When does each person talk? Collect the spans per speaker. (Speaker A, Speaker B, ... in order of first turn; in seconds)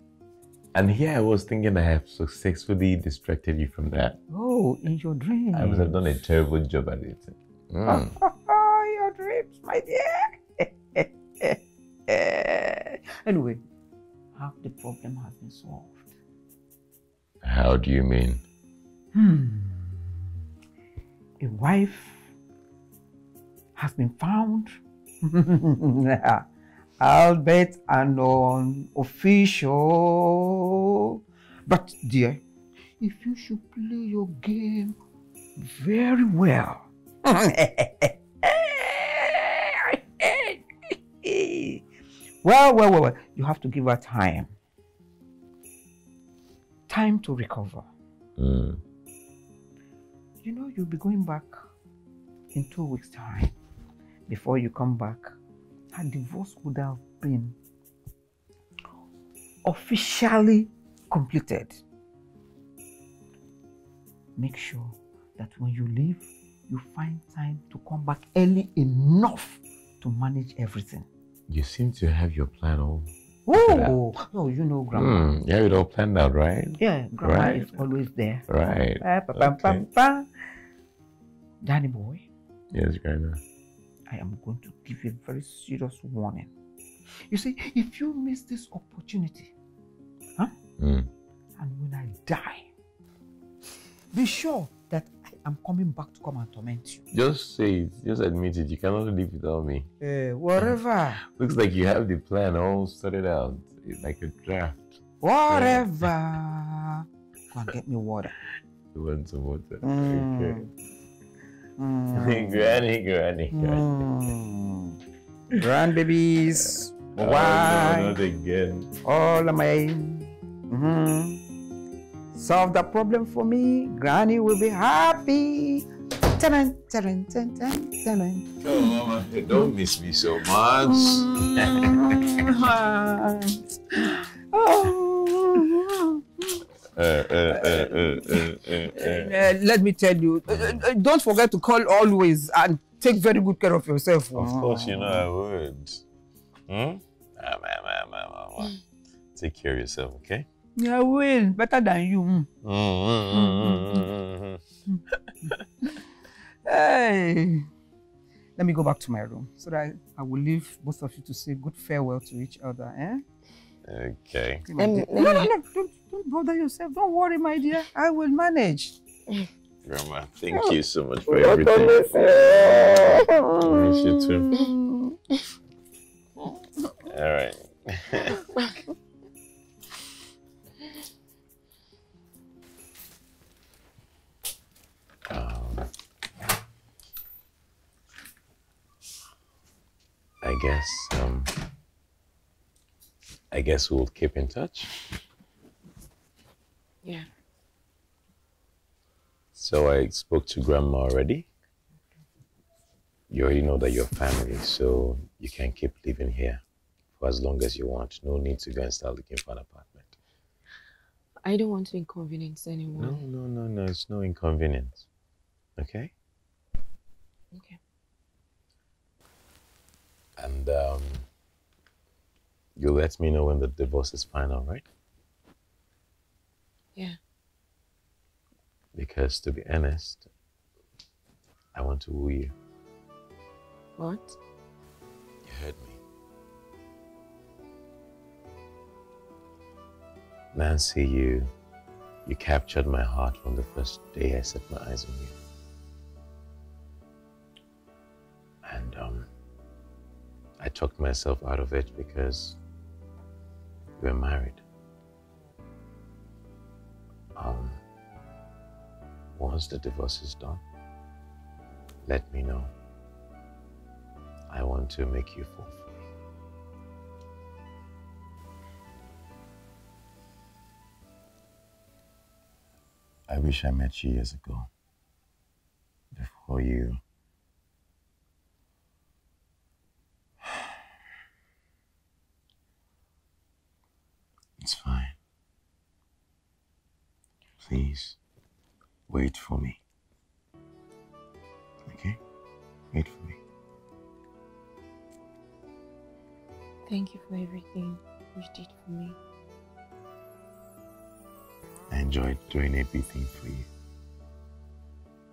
Speaker A: 0.7-4.2, 5.5-8.1, 17.4-18.4, 48.4-48.8, 71.5-74.0, 74.9-77.8, 78.5-79.8, 82.7-83.4, 90.8-91.1, 97.1-99.9, 101.3-105.9, 108.9-110.7, 112.1-113.9, 117.2-118.9, 128.6-132.0, 137.0-139.5, 144.3-146.0, 146.7-148.8, 149.3-150.5, 152.6-154.6, 163.8-164.7, 169.8-173.0, 173.6-174.5, 177.1-178.4, 185.3-185.9, 190.4-191.5, 193.5-194.9, 199.6-201.5, 203.3-206.6, 207.2-210.2, 213.0-215.1, 215.8-216.1, 220.4-221.3, 222.8-224.8, 228.9-230.3, 231.7-232.6, 235.4-236.0, 240.5-241.5, 242.2-245.4, 248.6-249.3, 250.6-252.6, 254.0-254.6, 257.4-257.8, 259.4-260.6, 262.1-262.7, 264.5-265.8, 273.3-274.7, 276.1-277.0, 284.6-285.2, 287.6-288.2, 289.1-289.8, 291.9-292.2, 292.9-293.4, 301.9-303.7
Speaker B: 4.3-6.0, 7.9-13.6, 14.4-16.1, 19.1-20.2, 21.4-22.3, 23.8-26.5, 27.0-32.4, 33.0-35.0, 35.6-41.9, 42.4-44.5, 46.9-47.9, 50.4-51.6, 52.5-53.6, 54.3-55.4, 55.9-57.6, 59.6-61.8, 64.4-71.1, 73.5-75.2, 76.8-78.5, 79.0-80.3, 81.6-82.3, 84.1-86.5, 87.3-89.5, 91.6-92.7, 94.1-97.0, 100.0-101.2, 105.2-108.3, 109.8-110.7, 111.8-112.7, 113.5-115.0, 115.5-118.2, 119.0-121.4, 122.3-128.5, 130.8-136.6, 137.5-145.3, 150.8-152.5, 153.3-154.1, 156.7-157.7, 158.6-163.2, 164.7-169.0, 171.3-175.2
Speaker C: 164.8-165.5, 197.0-197.3, 211.4-213.2, 217.5-217.8, 234.0-234.4, 296.9-299.2